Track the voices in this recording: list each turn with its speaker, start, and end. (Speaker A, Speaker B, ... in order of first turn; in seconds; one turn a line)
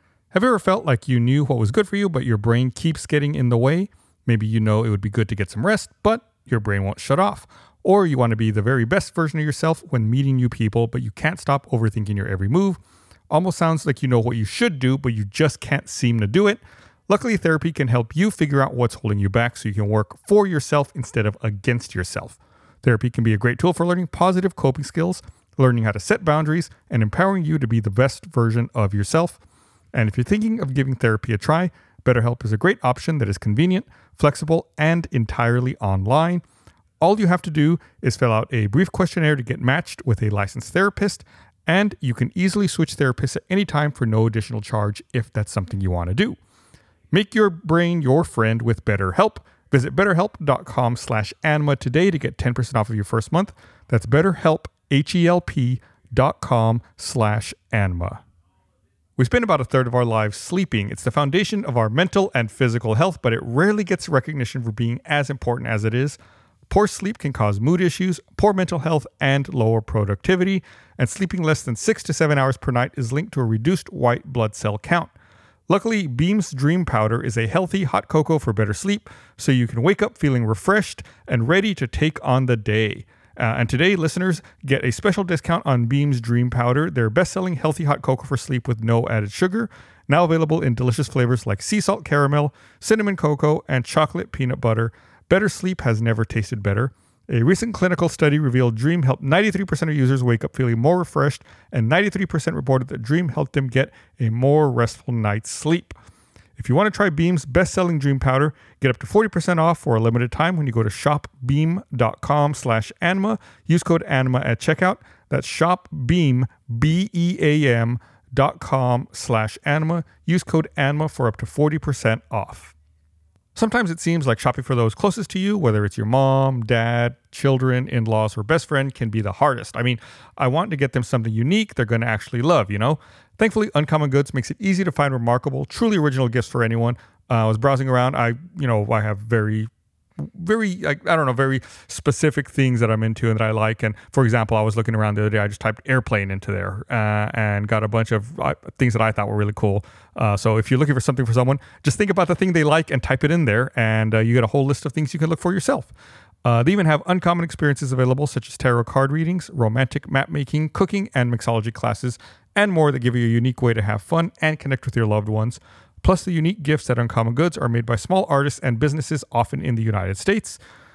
Speaker A: 0.3-12.8
Speaker A: 13.3-29.4
Speaker A: 29.9-36.4
Speaker A: 37.0-46.4
Speaker A: 47.1-58.2
Speaker A: 59.2-66.2
Speaker A: 66.7-75.1
Speaker A: 75.7-105.9
Speaker A: 106.6-122.7
Speaker A: 123.5-155.9
Speaker A: 156.4-170.6